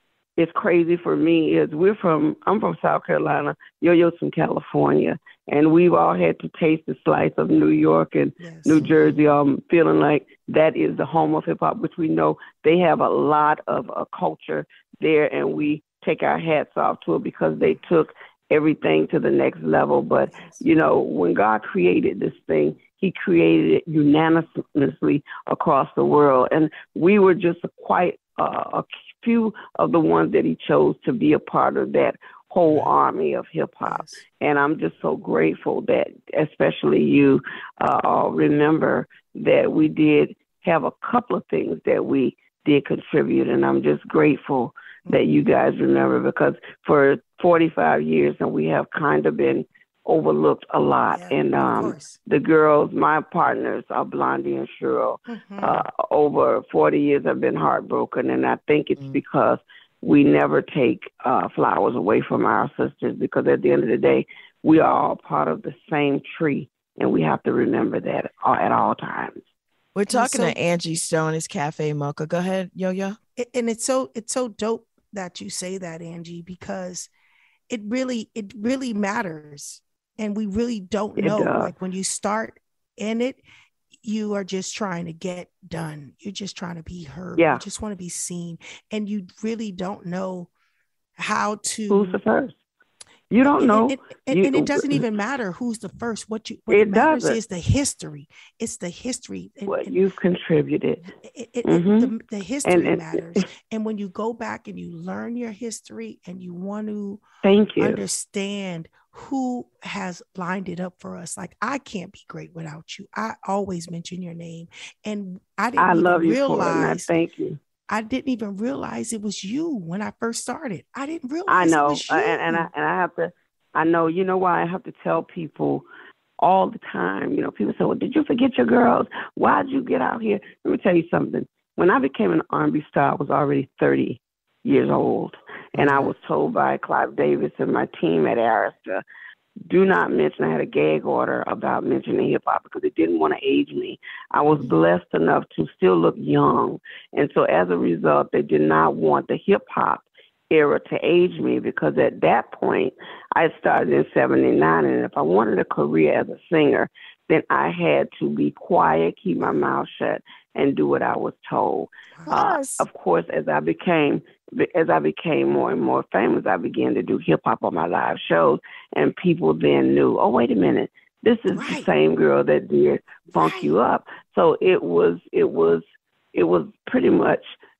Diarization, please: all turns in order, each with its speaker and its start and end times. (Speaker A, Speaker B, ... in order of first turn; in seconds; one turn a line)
Speaker A: 0.4-69.4
Speaker B: 8.4-9.1
Speaker B: 20.3-20.6
Speaker B: 33.8-34.2
Speaker B: 45.1-45.5
Speaker B: 51.1-52.2
Speaker B: 55.3-55.9
Speaker C: 69.9-73.2
Speaker B: 70.1-70.6
Speaker B: 73.4-77.1
Speaker B: 77.7-83.4
Speaker A: 81.2-81.7
Speaker B: 84.0-90.5
Speaker A: 87.4-87.6
Speaker B: 91.2-92.2
Speaker A: 91.9-92.5
Speaker A: 93.3-95.0
Speaker B: 93.4-100.0
Speaker A: 96.7-97.4
Speaker A: 99.7-101.1
Speaker B: 101.2-107.2
Speaker A: 101.6-102.1
Speaker A: 102.6-103.5
Speaker A: 107.4-108.0
Speaker B: 107.8-117.2
Speaker A: 115.8-117.6
Speaker B: 117.9-122.7
Speaker A: 121.5-125.8
Speaker A: 126.4-139.0
Speaker B: 135.8-136.0
Speaker A: 139.7-175.8
Speaker B: 159.4-159.7
Speaker B: 162.2-162.6
Speaker C: 162.3-162.8
Speaker B: 171.5-171.9
Speaker B: 173.3-173.8
Speaker A: 176.3-177.4